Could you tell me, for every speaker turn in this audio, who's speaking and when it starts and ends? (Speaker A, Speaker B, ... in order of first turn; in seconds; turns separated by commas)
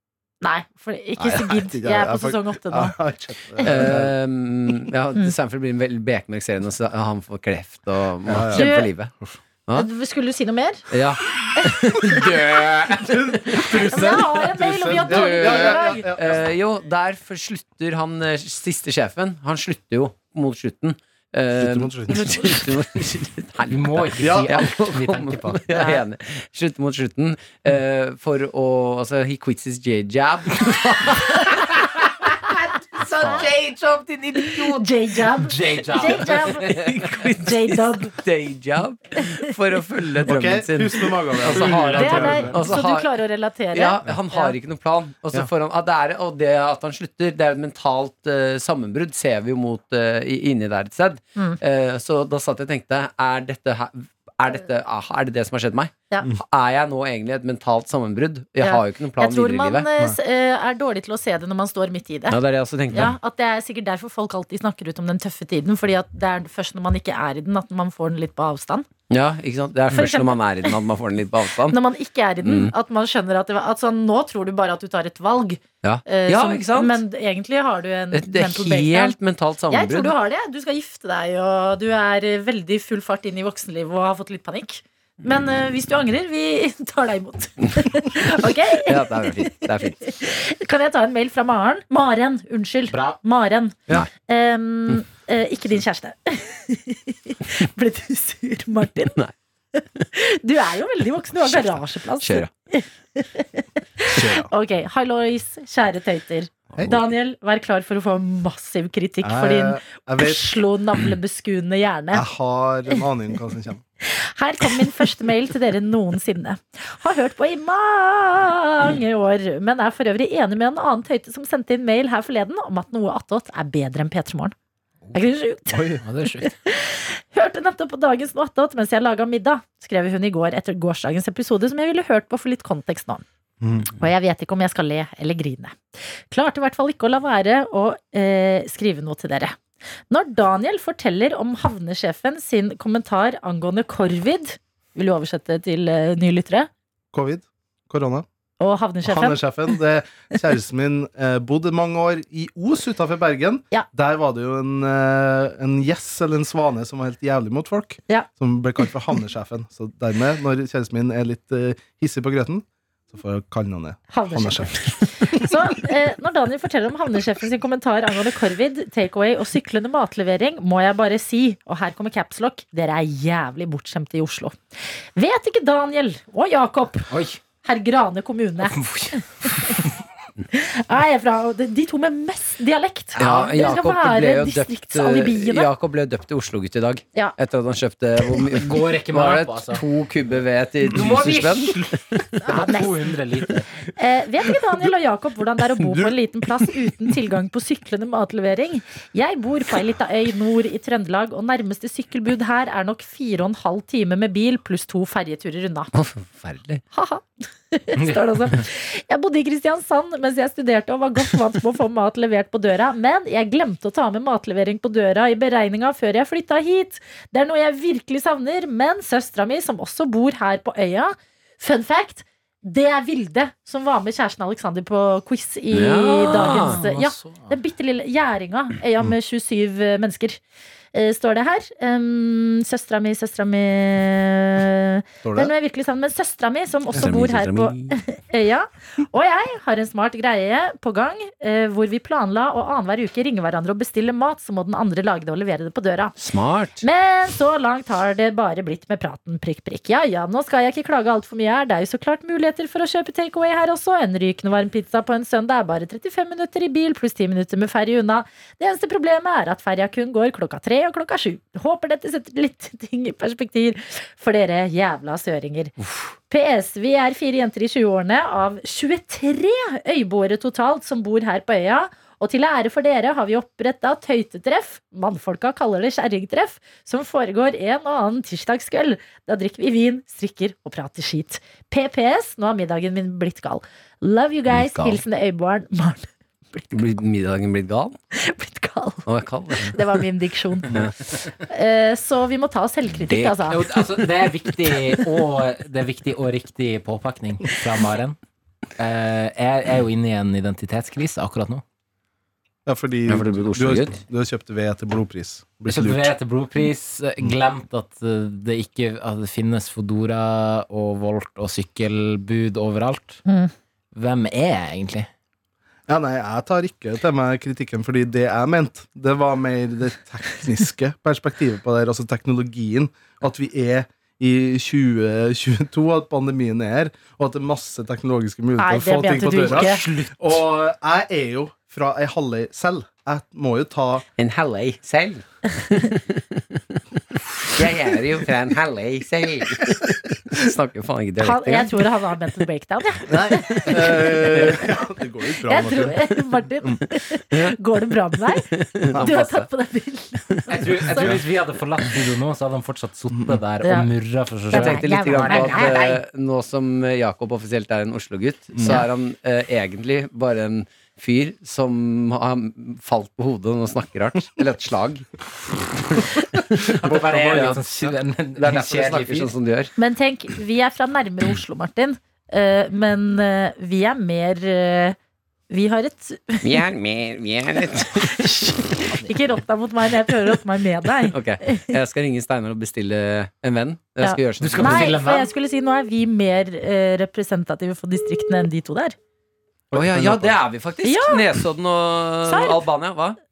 Speaker A: 0.4-3.0, Speaker B: 1.2-4.1, Speaker A: 3.6-4.0, Speaker C: 3.6-9.1, Speaker B: 8.3-9.4, Speaker A: 8.5-8.9, Speaker A: 9.7-10.8, Speaker C: 10.9-35.2, Speaker B: 13.1-16.4, Speaker A: 13.7-16.1, Speaker B: 21.5-22.5, Speaker A: 22.1-22.7, Speaker D: 23.7-25.7, Speaker B: 24.2-24.5, Speaker A: 25.7-26.0, Speaker A: 33.2-33.4, Speaker D: 33.2-33.5, Speaker A: 34.5-38.2, Speaker D: 35.4-37.1, Speaker C: 36.0-43.2, Speaker B: 40.2-42.6, Speaker D: 41.5-42.5, Speaker A: 41.9-44.5, Speaker C: 43.7-59.9, Speaker A: 58.6-62.4, Speaker C: 62.3-63.1, Speaker A: 62.9-68.9, Speaker C: 69.1-71.8, Speaker A: 69.9-70.7, Speaker A: 71.7-79.2, Speaker C: 72.4-72.7, Speaker C: 75.8-77.0, Speaker C: 78.1-80.1, Speaker A: 79.7-99.2, Speaker C: 88.8-90.0, Speaker D: 92.9-93.2, Speaker A: 99.8-112.2, Speaker C: 101.4-102.5, Speaker B: 104.1-104.5, Speaker B: 109.2-110.5, Speaker B: 112.1-113.8, Speaker A: 114.0-124.5, Speaker A: 125.1-133.2, Speaker B: 125.7-126.0, Speaker D: 126.0-126.5, Speaker B: 133.6-133.9, Speaker A: 133.9-135.8, Speaker A: 136.3-139.6, Speaker A: 140.1-146.7, Speaker B: 147.1-148.2, Speaker A: 148.6-149.4, Speaker B: 149.0-165.5, Speaker A: 164.1-174.5, Speaker A: 175.1-177.1, Speaker D: 177.1-177.4, Speaker A: 177.6-179.8, Speaker D: 178.7-179.9, Speaker A: 180.5-185.7, Speaker C: 183.1-192.4, Speaker D: 188.5-189.8, Speaker D: 190.8-193.6, Speaker A: 192.4-193.0, Speaker A: 193.9-205.9, Speaker C: 205.9-206.8, Speaker A: 206.9-230.4, Speaker C: 225.7-226.8, Speaker D: 226.4-227.5, Speaker A: 230.9-246.2, Speaker B: 235.2-235.5, Speaker C: 236.9-238.0, Speaker C: 246.2-246.8, Speaker A: 246.8-265.8, Speaker C: 265.8-266.1, Speaker A: 266.3-286.9, Speaker C: 284.5-285.0, Speaker C: 286.7-287.9, Speaker A: 288.1-289.1, Speaker C: 289.1-289.8, Speaker A: 289.6-293.6, Speaker C: 290.7-290.9, Speaker C: 293.1-293.4, Speaker D: 293.5-298.2, Speaker D: 298.8-301.6, Speaker B: 302.6-306.1, Speaker C: 303.1-304.0, Speaker D: 305.7-313.2, Speaker A: 313.2-313.5, Speaker D: 313.9-315.1, Speaker B: 315.9-334.0, Speaker A: 328.6-329.8, Speaker C: 334.2-336.2, Speaker C: 337.1-341.8, Speaker A: 341.2-344.1, Speaker B: 343.1-346.8, Speaker C: 343.5-344.6, Speaker A: 345.3-351.1, Speaker C: 348.3-349.4, Speaker B: 348.9-349.3, Speaker D: 350.5-356.0, Speaker B: 353.1-353.4, Speaker A: 353.6-353.9, Speaker A: 354.5-355.8, Speaker C: 354.5-365.1, Speaker B: 358.6-358.8, Speaker C: 365.9-369.7, Speaker D: 366.7-369.3, Speaker A: 369.8-375.0, Speaker A: 375.5-376.6, Speaker C: 376.4-378.6, Speaker A: 378.0-381.8, Speaker C: 381.1-384.9, Speaker A: 384.0-388.9, Speaker D: 384.4-385.3, Speaker B: 389.7-390.4, Speaker C: 389.7-393.2, Speaker A: 390.8-391.2, Speaker A: 392.2-392.6